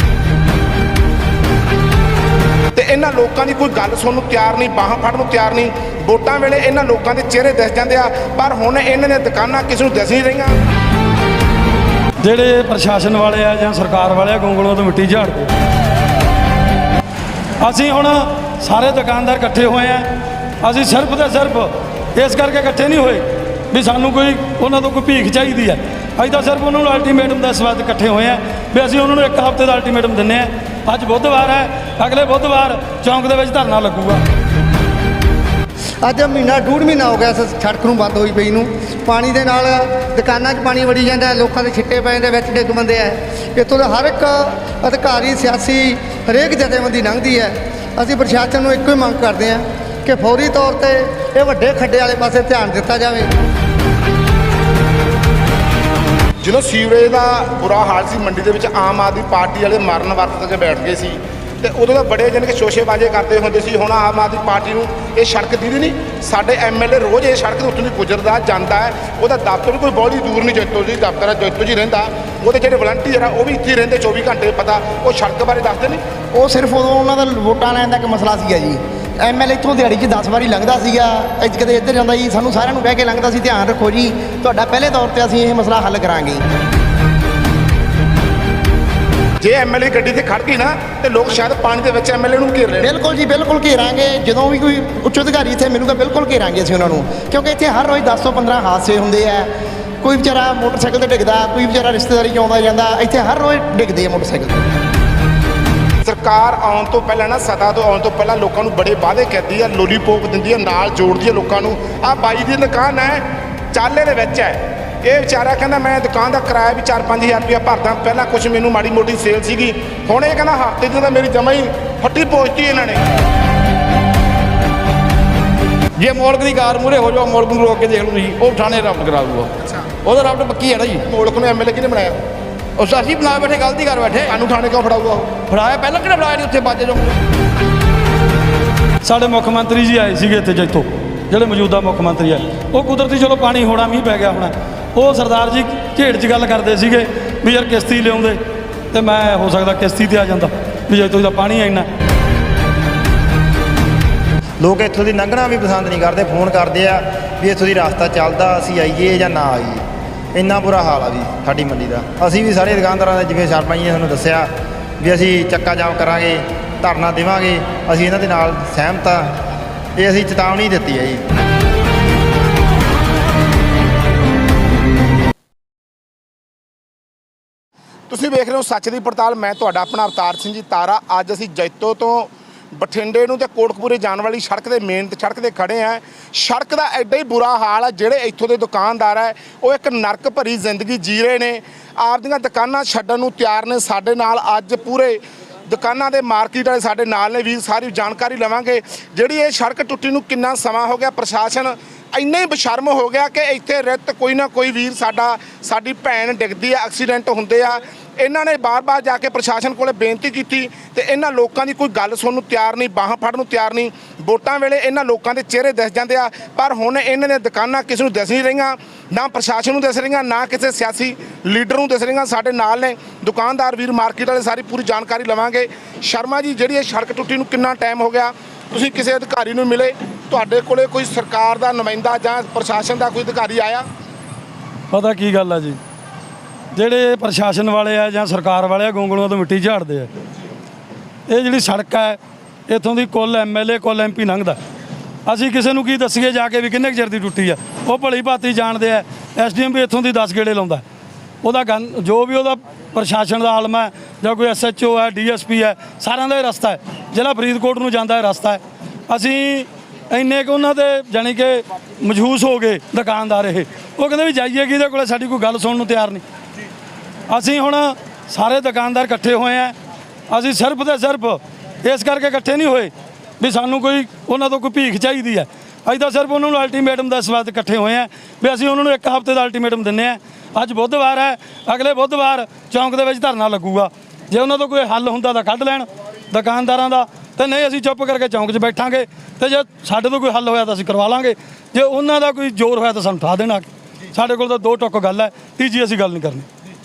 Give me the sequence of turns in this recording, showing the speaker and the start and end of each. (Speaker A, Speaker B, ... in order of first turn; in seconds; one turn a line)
Speaker A: 2.7-10.6
Speaker B: 12.2-15.5
Speaker B: 17.6-20.1
Speaker B: 20.6-34.2
Speaker C: 36.0-53.3
Speaker A: 56.4-76.0
Speaker D: 76.3-86.4
Speaker A: 89.4-92.9
Speaker D: 92.8-99.5
Speaker D: 100.0-104.6
Speaker A: 106.0-123.0
Speaker E: 126.0-129.5
Speaker A: 129.6-129.9
Speaker E: 130.0-131.0
Speaker A: 131.0-132.2
Speaker E: 132.8-134.3
Speaker A: 134.3-135.3
Speaker E: 135.5-137.0
Speaker B: 139.0-148.4
Speaker B: 148.9-151.9
Speaker F: 154.6-159.8
Speaker F: 160.3-169.3
Speaker F: 170.0-171.2
Speaker A: 178.1-233.8
Speaker B: 234.9-235.8
Speaker B: 236.8-240.1
Speaker B: 241.3-244.6
Speaker B: 245.2-250.8
Speaker B: 251.4-266.2
Speaker B: 267.3-269.7
Speaker B: 270.3-296.5